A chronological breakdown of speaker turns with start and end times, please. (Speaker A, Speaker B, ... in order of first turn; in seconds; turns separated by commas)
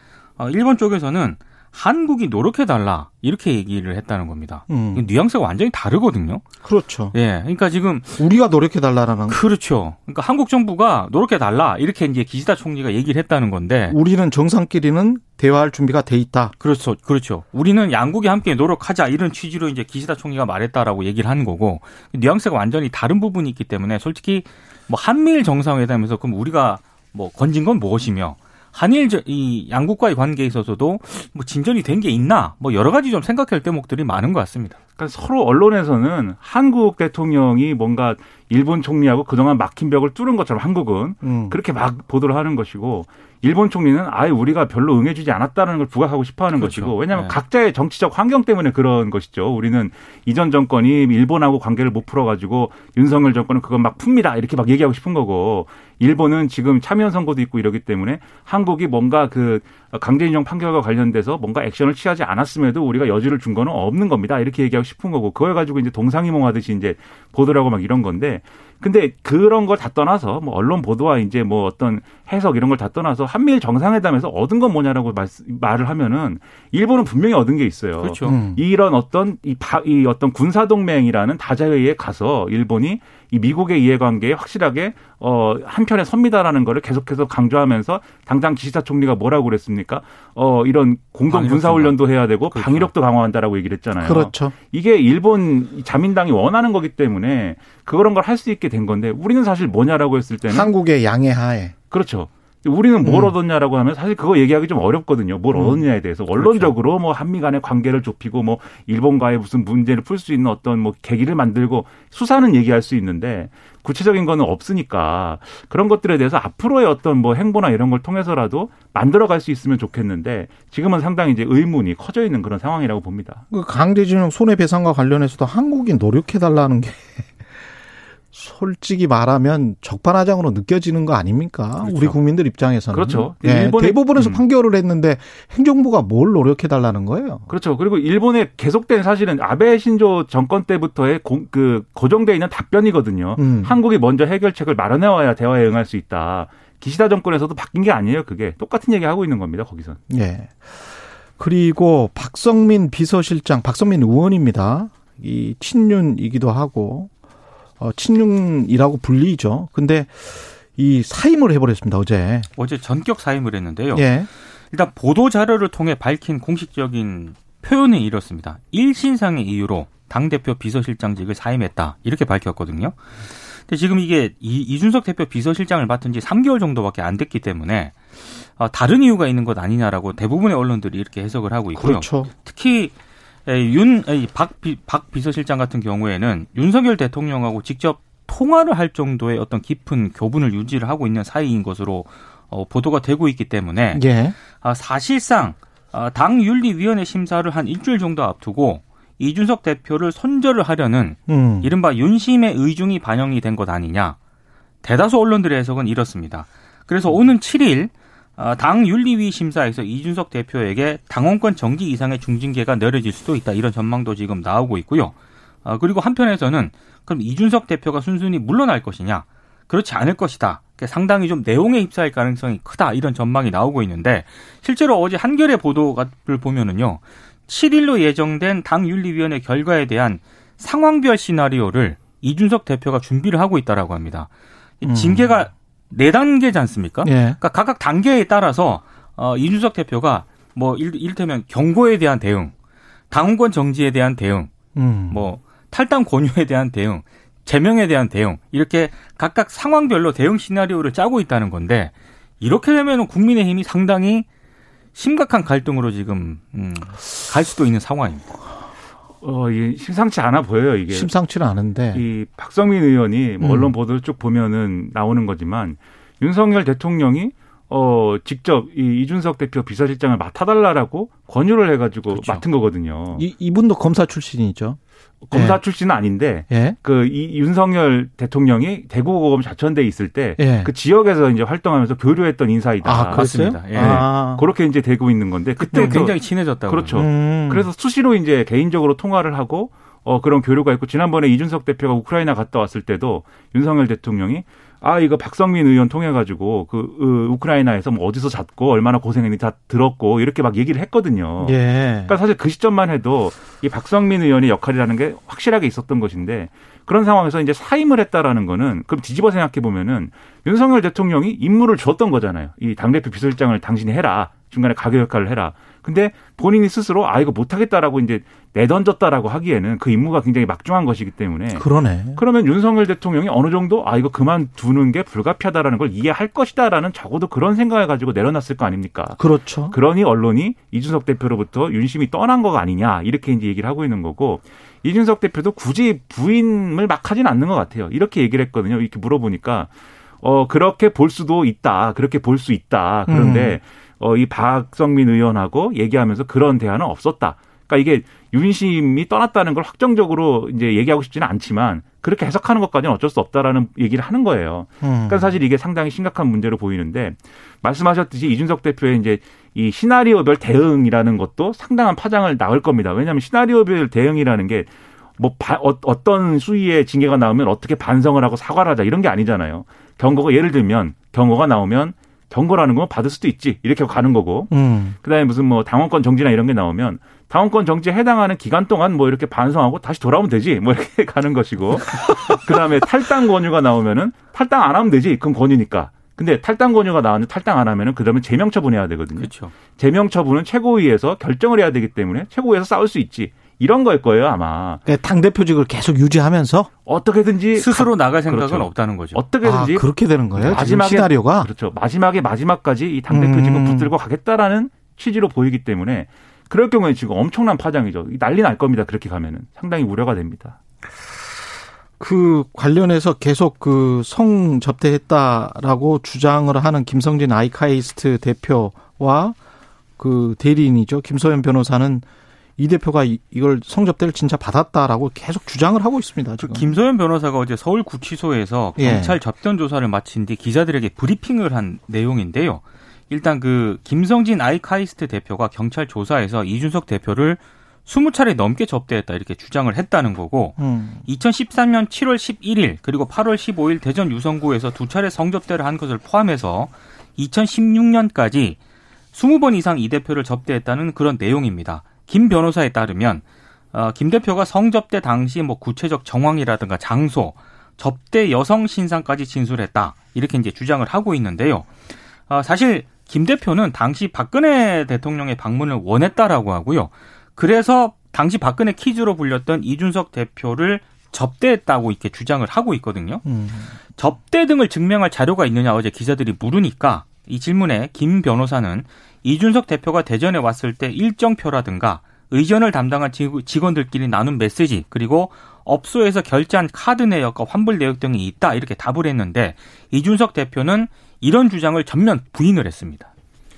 Speaker A: 0.4-6.4, Speaker B: 4.7-5.0, Speaker B: 6.6-7.1, Speaker A: 7.1-8.2, Speaker B: 8.2-9.4, Speaker A: 9.3-14.0, Speaker B: 13.9-16.6, Speaker A: 16.6-34.8, Speaker C: 35.0-100.7, Speaker B: 41.2-41.6, Speaker A: 46.6-47.4, Speaker A: 78.0-78.4, Speaker B: 78.2-78.6, Speaker A: 91.3-92.0, Speaker A: 92.5-92.9, Speaker B: 94.0-94.5, Speaker B: 100.5-101.7, Speaker C: 101.9-123.4, Speaker B: 103.0-103.3, Speaker B: 105.5-105.8, Speaker B: 106.4-106.7, Speaker B: 123.5-127.3, Speaker B: 128.3-137.5, Speaker C: 131.8-132.2, Speaker C: 132.9-134.4, Speaker C: 137.5-150.0, Speaker B: 143.4-143.8, Speaker B: 150.1-157.1, Speaker B: 157.8-162.5, Speaker A: 162.6-164.1, Speaker B: 163.9-164.3, Speaker A: 164.7-182.9, Speaker B: 181.8-182.3, Speaker A: 183.5-194.0, Speaker B: 193.9-194.3, Speaker A: 194.6-204.2, Speaker B: 201.3-201.7, Speaker A: 204.8-215.1, Speaker A: 215.7-234.3, Speaker A: 234.8-242.5, Speaker B: 234.8-235.2, Speaker B: 237.0-237.4, Speaker A: 243.1-244.5, Speaker B: 244.8-245.2, Speaker A: 245.1-254.3, Speaker A: 254.9-258.3, Speaker C: 259.2-261.1, Speaker B: 260.9-262.0, Speaker C: 261.9-273.2, Speaker B: 263.4-263.7, Speaker A: 272.1-272.4, Speaker B: 273.1-274.8, Speaker C: 275.2-286.1, Speaker B: 275.3-275.6, Speaker B: 276.5-276.8, Speaker B: 280.4-280.7, Speaker B: 282.8-284.4, Speaker A: 283.1-284.0, Speaker A: 285.6-287.0, Speaker B: 285.7-286.1, Speaker C: 286.7-301.6, Speaker B: 286.9-287.7, Speaker B: 301.4-302.1, Speaker C: 302.1-339.7, Speaker B: 321.5-322.2, Speaker B: 329.2-329.8, Speaker C: 340.2-374.5, Speaker B: 343.1-343.6, Speaker B: 354.8-355.3, Speaker B: 374.5-374.9, Speaker C: 375.0-394.8, Speaker A: 389.2-389.5, Speaker B: 394.9-396.7, Speaker C: 396.9-410.6, Speaker A: 397.6-399.2, Speaker B: 399.4-401.5, Speaker B: 403.1-403.9, Speaker B: 412.0-419.4, Speaker B: 420.0-422.1, Speaker B: 422.6-426.7, Speaker A: 426.4-448.6, Speaker B: 428.8-429.2, Speaker B: 440.6-441.0, Speaker A: 449.1-461.7, Speaker A: 462.3-473.2, Speaker B: 473.2-473.7, Speaker A: 474.0-493.1